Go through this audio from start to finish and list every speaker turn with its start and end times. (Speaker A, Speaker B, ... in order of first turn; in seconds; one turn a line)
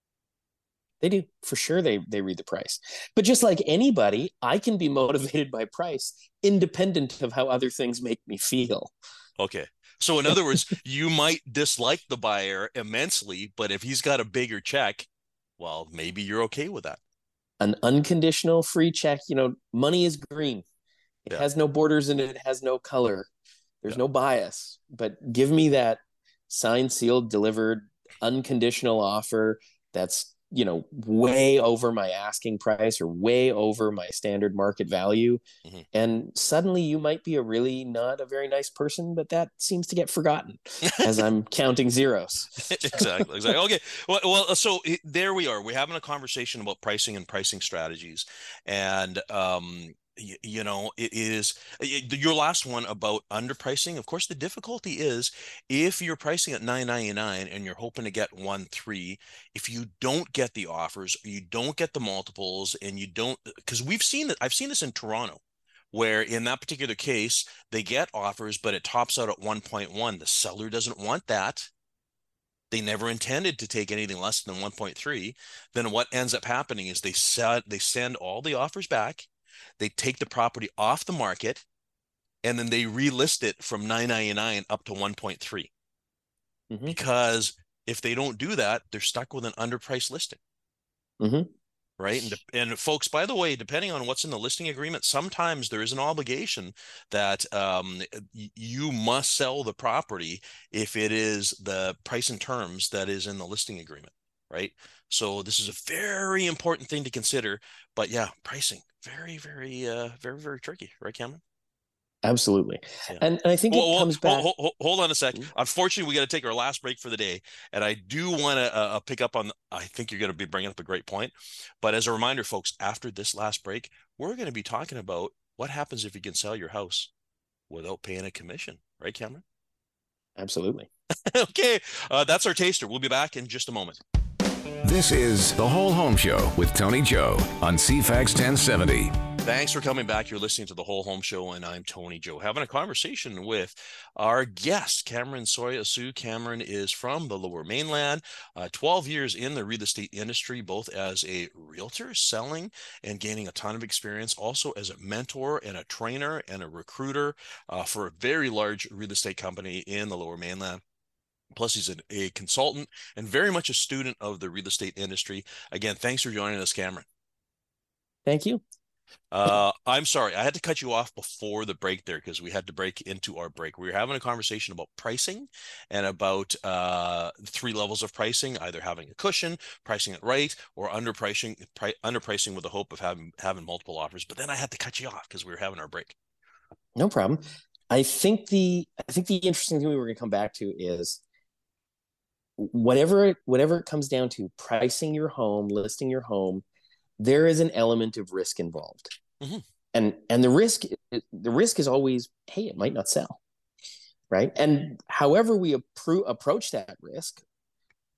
Speaker A: 1.0-8.9
Speaker B: 9.4-15.1
Speaker B: 15.6-17.0
Speaker A: 17.6-20.6
Speaker A: 21.3-23.3
Speaker A: 23.8-35.4
Speaker A: 35.9-43.3
Speaker B: 40.9-41.2
Speaker B: 42.6-65.4
Speaker B: 65.9-71.7
Speaker B: 72.7-79.3
Speaker B: 79.8-81.6
Speaker B: 82.4-85.7
Speaker A: 86.7-87.0
Speaker B: 86.9-90.4
Speaker A: 91.2-91.5
Speaker B: 92.0-111.4
Speaker A: 112.2-114.5
Speaker B: 113.1-127.1
Speaker B: 127.7-129.4
Speaker A: 130.4-130.9
Speaker B: 131.3-134.0
Speaker C: 134.8-139.2
Speaker B: 139.4-160.8
Speaker B: 161.5-167.0
Speaker A: 168.2-168.6
Speaker B: 169.3-186.1
Speaker A: 186.9-191.2
Speaker A: 192.6-196.6
Speaker A: 197.2-199.1
Speaker A: 199.9-203.4
Speaker A: 204.3-207.4